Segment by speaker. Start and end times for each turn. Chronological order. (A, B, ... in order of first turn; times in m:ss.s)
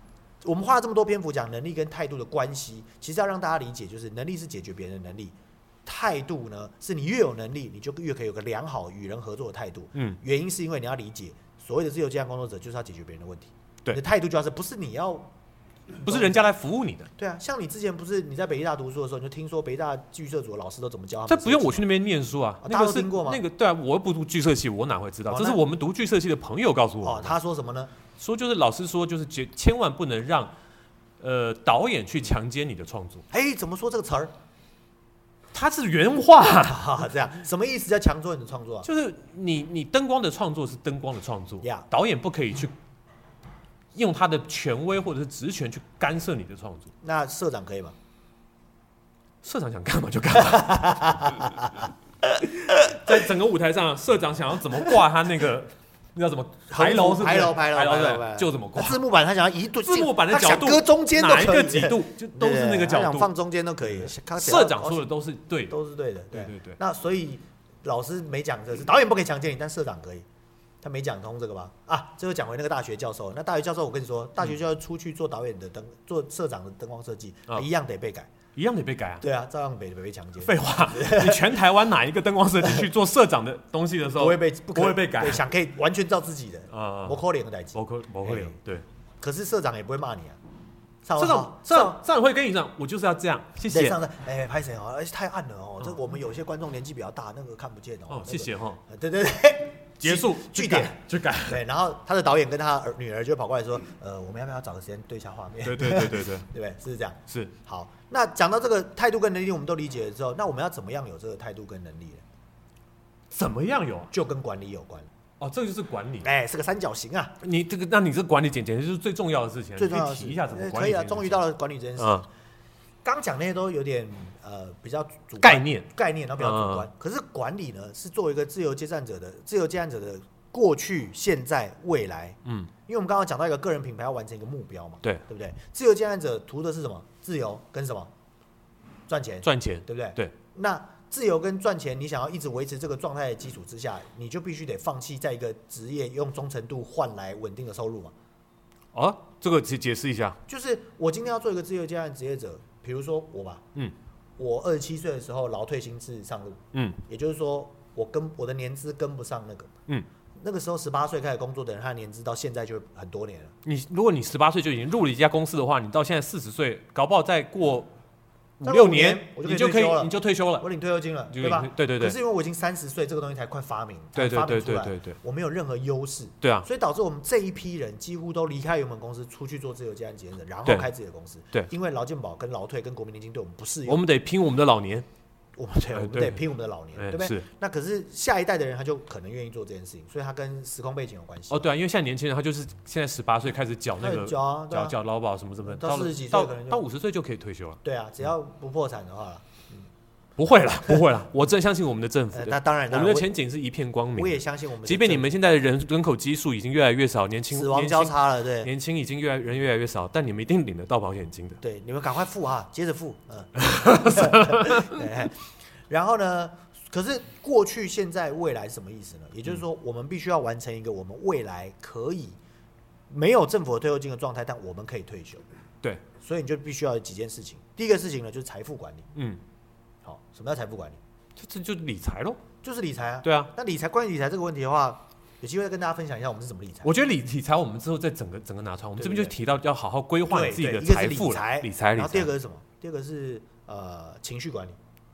0:00.4-0:15.3 A
0:09.9-0:10.2 B
0:15.9-0:16.5 A
0:16.0-0:17.1 B
0:17.2-0:21.8 A
0:21.3-0:27.3 B
0:22.6-0:23.4 A
0:25.2-0:25.6 A
0:27.0-0:27.9 A
0:28.1-0:30.5 B
0:31.2-0:33.2 B
0:33.3-0:34.3 A
0:35.5-0:37.0 B
0:36.6-0:38.9 A
0:38.8-0:42.7 B
0:43.9-0:46.9 B
0:47.0-0:47.9 A
0:49.4-0:51.7 B
0:50.4-0:53.1 A
0:52.5-0:59.0 B
0:56.7-1:05.1 A
0:59.8-1:03.3 B
1:03.8-1:05.7 B
1:05.7-1:10.2 A
1:06.3-1:06.8 B
1:10.8-1:18.3 A
1:18.5-1:19.2 B
1:19.2-1:21.6 A
1:20.4-1:25.4 B
1:24.2-1:28.6 A
1:26.7-1:27.2 B
1:27.7-1:28.8 B
1:29.2-1:30.4 A
1:31.0-1:32.0 A
1:31.2-1:34.0 B
1:33.7-1:52.2 A
1:38.1-1:38.8 B
1:40.0-1:41.6 B
1:45.6-1:46.4 B
1:53.3-1:54.1 B
1:54.1-1:55.1 A
1:55.4-1:56.3 B
1:56.2-1:57.4 A
1:57.4-2:01.4 B
1:59.8-2:02.3 A
2:02.0-2:02.2 B
2:03.0-2:18.1 A
2:05.4-2:06.9 B
2:12.4-2:12.7 B
2:19.1-2:28.1 A
2:19.4-2:20.3 B
2:28.9-2:30.4 B
2:30.5-2:33.6 A
2:34.4-2:39.7 A
2:36.7-2:37.0 B
2:40.4-2:43.5 A
2:43.6-2:47.9 B
2:48.6-2:50.7 B
2:48.6-3:04.0 A
2:51.3-2:52.2 B
2:54.2-2:55.2 B
2:56.4-2:56.7 B
3:03.8-3:05.0 B
3:05.6-3:11.7 A
3:05.9-3:06.4 B
3:06.9-3:07.5 B
3:11.5-3:17.8 B
3:14.0-3:15.0 A
3:15.6-3:16.8 A
3:17.8-3:19.9 A
3:20.4-3:31.6 B
3:22.3-3:23.3 A
3:24.1-3:25.4 A
3:27.5-3:28.7 A
3:31.6-3:35.4 A
3:33.6-3:35.0 B
3:35.9-3:42.4 A
3:43.1-3:45.4 A
3:46.2-3:49.1 A
3:49.1-3:49.4 B
3:50.0-3:51.0 A
3:51.4-3:52.4 B
3:52.6-3:56.9 A
3:53.2-3:53.5 B
3:56.8-4:02.3 B
3:59.0-3:59.3 A
4:00.3-4:04.8 A